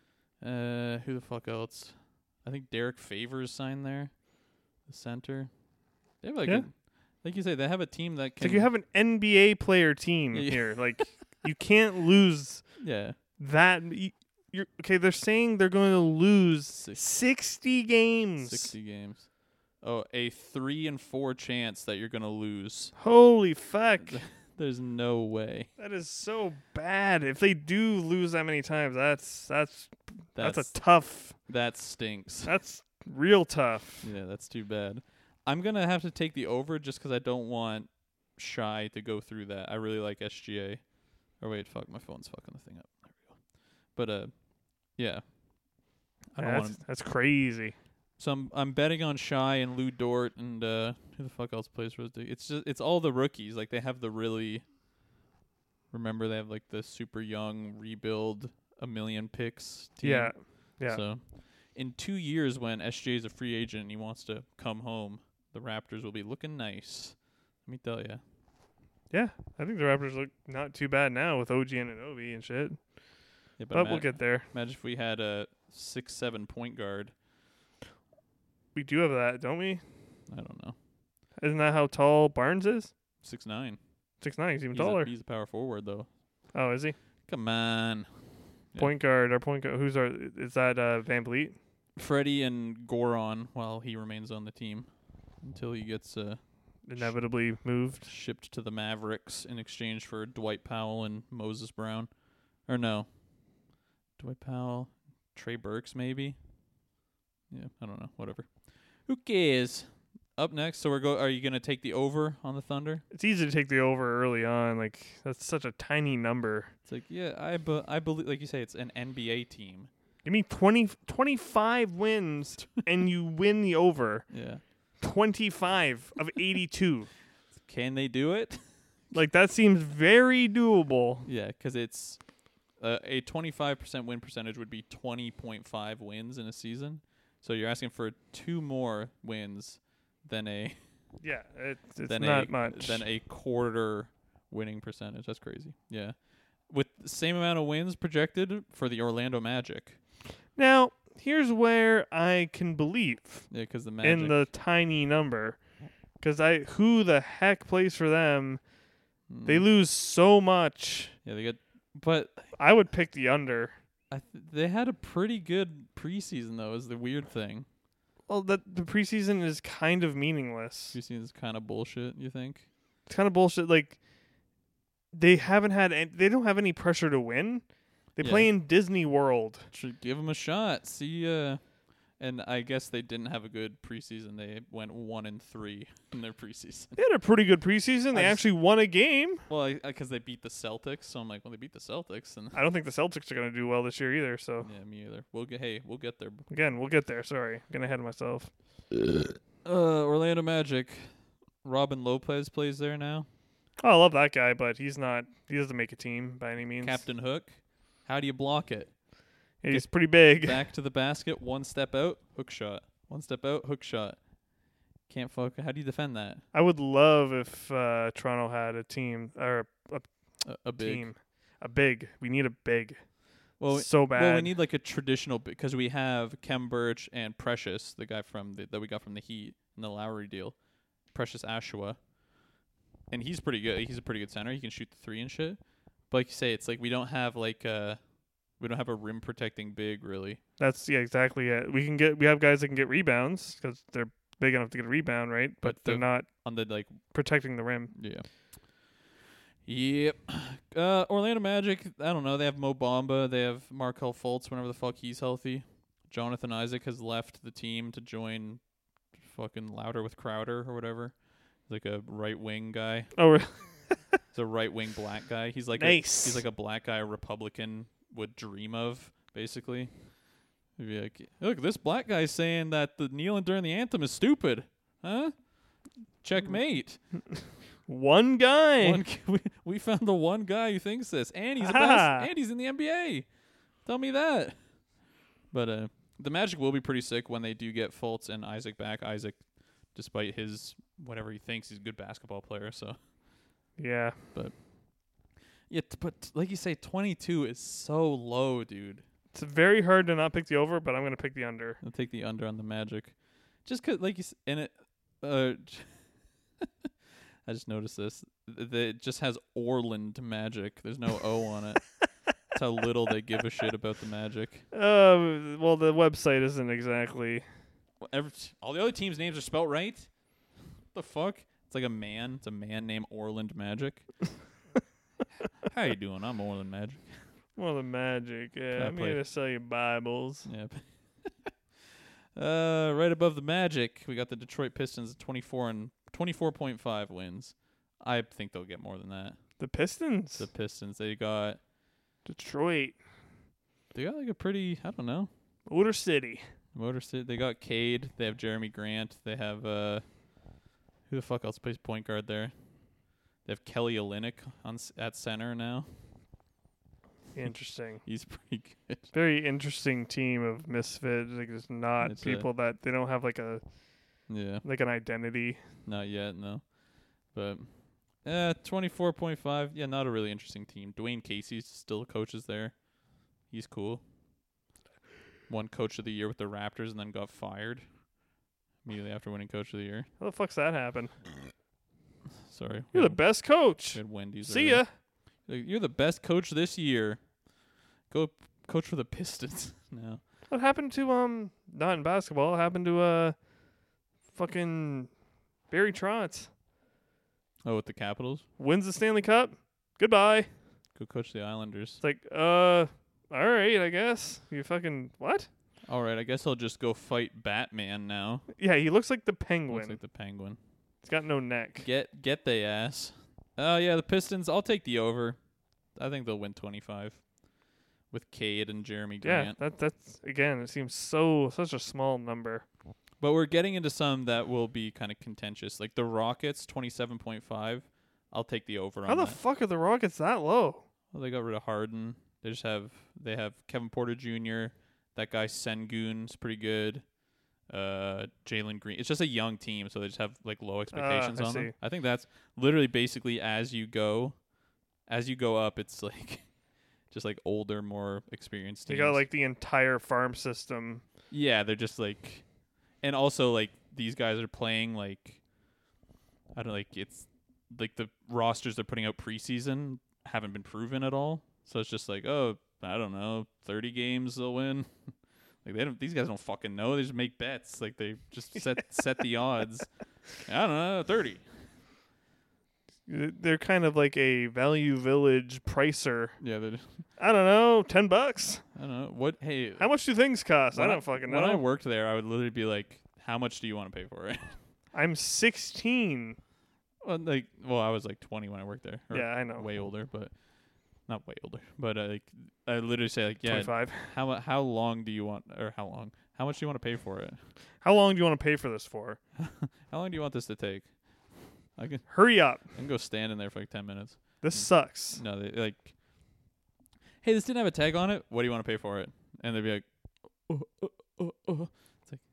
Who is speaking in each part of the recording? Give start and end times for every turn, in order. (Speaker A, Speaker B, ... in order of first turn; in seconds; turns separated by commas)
Speaker A: 0.4-8.7, Speaker B: 8.4-12.8, Speaker A: 10.3-11.2, Speaker A: 12.8-13.2, Speaker B: 13.4-18.8, Speaker A: 16.7-17.0, Speaker A: 18.4-22.9, Speaker B: 23.0-24.2, Speaker A: 24.0-25.7, Speaker B: 25.8-31.5, Speaker A: 30.4-32.5, Speaker B: 32.4-34.1, Speaker A: 34.0-45.4, Speaker A: 46.3-46.8, Speaker B: 46.4-47.8, Speaker A: 48.2-54.7, Speaker A: 55.9-68.2, Speaker B: 60.0-61.0, Speaker B: 69.1-72.9, Speaker A: 73.6-77.1, Speaker B: 73.7-74.5, Speaker B: 78.8-79.8, Speaker A: 80.3-80.8, Speaker B: 81.4-82.9, Speaker A: 83.2-83.8, Speaker B: 84.2-85.1, Speaker A: 84.7-86.1, Speaker B: 86.5-87.0, Speaker A: 87.3-88.1, Speaker B: 88.8-91.6, Speaker A: 92.0-97.2, Speaker B: 96.8-98.1, Speaker A: 98.0-102.1, Speaker A: 102.6-103.1, Speaker A: 104.2-106.4, Speaker A: 107.5-113.0, Speaker B: 113.1-116.7, Speaker A: 116.9-119.9, Speaker B: 120.2-127.1, Speaker A: 124.3-124.6, Speaker A: 127.5-129.2, Speaker B: 129.1-131.3, Speaker A: 131.3-140.8, Speaker B: 141.2-143.1, Speaker A: 142.1-150.0, Speaker B: 150.6-158.7, Speaker A: 153.5-154.5, Speaker A: 159.3-159.7, Speaker B: 159.4-161.2, Speaker A: 161.2-162.6, Speaker B: 162.6-163.7, Speaker A: 164.1-167.7, Speaker B: 168.3-171.0, Speaker A: 170.9-172.7, Speaker B: 173.1-174.0, Speaker B: 175.1-179.7, Speaker A: 178.2-178.5, Speaker A: 179.7-186.9, Speaker B: 187.0-189.5, Speaker A: 188.1-188.5, Speaker A: 189.5-192.6, Speaker B: 192.5-194.7, Speaker A: 194.6-196.5, Speaker B: 196.5-198.5, Speaker A: 199.6-203.3, Speaker B: 203.8-207.1, Speaker A: 206.8-214.4, Speaker B: 209.6-210.6, Speaker A: 215.1-216.4, Speaker B: 216.5-224.5, Speaker A: 220.4-221.1, Speaker A: 223.6-232.0, Speaker A: 233.1-240.4, Speaker B: 240.6-247.9, Speaker A: 245.6-247.0, Speaker A: 247.9-248.9, Speaker A: 249.7-263.1, Speaker B: 263.1-264.1, Speaker A: 264.3-270.1, Speaker B: 265.8-266.4, Speaker A: 270.8-277.0, Speaker B: 277.9-279.0, Speaker A: 278.8-284.9, Speaker B: 281.6-282.3, Speaker A: 285.5-293.0, Speaker B: 293.8-294.2, Speaker A: 294.3-295.2, Speaker A: 295.7-299.0, Speaker B: 299.3-301.8, Speaker A: 301.8-306.6, Speaker A: 307.5-314.6, Speaker B: 314.7-317.4, Speaker A: 318.0-320.3, Speaker A: 320.9-324.3, Speaker A: 325.6-327.3, Speaker B: 327.6-330.5, Speaker A: 328.7-329.2, Speaker A: 330.5-331.5, Speaker A: 332.4-339.4, Speaker B: 339.6-340.5, Speaker A: 340.4-341.6, Speaker B: 342.2-343.0, Speaker A: 343.9-345.3, Speaker B: 345.7-346.4, Speaker A: 346.7-350.2, Speaker A: 351.1-352.6, Speaker A: 353.4-355.9, Speaker B: 357.4-358.0, Speaker A: 358.0-359.1, Speaker B: 359.1-365.6, Speaker A: 362.0-362.5, Speaker A: 364.3-364.6, Speaker A: 365.9-374.0, Speaker A: 375.5-377.9, Speaker A: 378.8-380.1, Speaker B: 380.2-381.2, Speaker A: 382.5-387.4, Speaker B: 382.9-384.9, Speaker A: 388.1-390.2, Speaker B: 390.5-395.2, Speaker B: 395.7-396.5, Speaker A: 397.6-398.5, Speaker B: 398.6-400.5, Speaker A: 400.9-402.0, Speaker B: 402.0-405.5, Speaker A: 405.9-408.5, Speaker B: 408.6-410.0, Speaker A: 409.7-410.6, Speaker B: 411.0-411.9, Speaker A: 411.8-415.4, Speaker A: 415.9-417.4, Speaker A: 418.1-419.6, Speaker B: 419.2-422.7, Speaker A: 423.2-429.4, Speaker B: 429.1-430.9, Speaker A: 431.1-437.1, Speaker A: 437.7-444.4, Speaker B: 440.9-441.8, Speaker A: 445.1-446.6, Speaker A: 447.1-449.2, Speaker B: 448.9-451.0, Speaker A: 451.3-452.5, Speaker A: 453.0-455.4, Speaker A: 456.6-465.1, Speaker A: 465.6-471.5, Speaker B: 473.1-476.4, Speaker A: 476.4-477.0, Speaker B: 477.2-478.6, Speaker A: 478.8-479.9, Speaker B: 479.8-481.6, Speaker A: 480.7-484.6, Speaker B: 484.9-486.4, Speaker A: 487.0-490.4, Speaker B: 489.1-489.7, Speaker A: 491.1-497.4, Speaker B: 493.4-494.1, Speaker B: 497.8-499.2, Speaker A: 499.4-500.9, Speaker A: 501.8-505.9, Speaker B: 502.1-502.6, Speaker B: 504.4-505.2, Speaker A: 507.2-512.2